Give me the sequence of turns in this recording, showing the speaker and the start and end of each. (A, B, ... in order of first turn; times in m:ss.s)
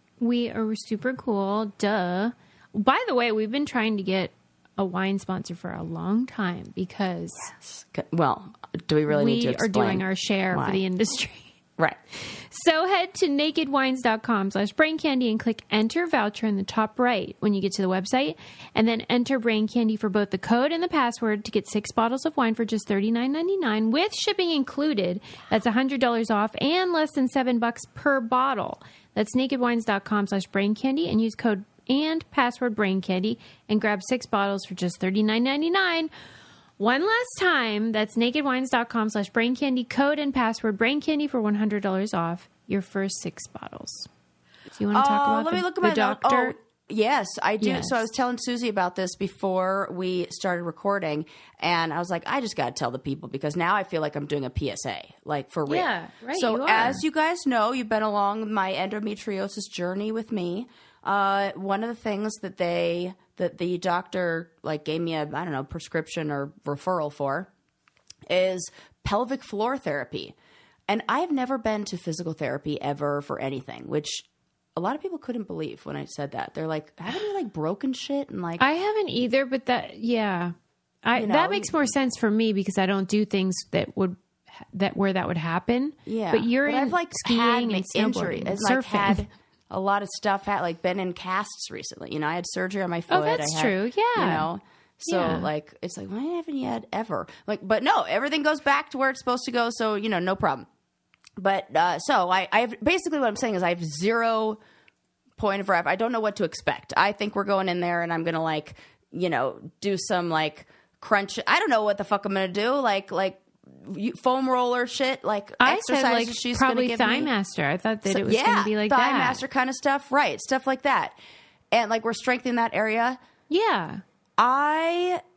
0:00.2-0:07.5 A
0:07.5-0:10.8 B
0:09.1-0:11.6 A
0:12.2-0:36.1 A
0:36.8-0:44.1 A
0:44.8-0:46.6 A
0:44.9-1:07.5 B
0:47.6-0:48.0 A
0:55.7-0:57.0 A
1:08.3-1:10.4 B
1:10.9-1:18.6 B
1:18.6-1:29.2 A
1:21.2-1:21.9 B
1:26.1-1:40.7 B
1:33.1-1:34.5 A
1:35.1-1:35.5 A
1:41.4-1:44.6 B
1:45.4-1:57.3 B
1:55.6-1:59.4 A
1:58.1-2:01.2 B
2:01.7-2:03.2 B
2:03.5-2:04.0 A
2:04.4-2:05.2 B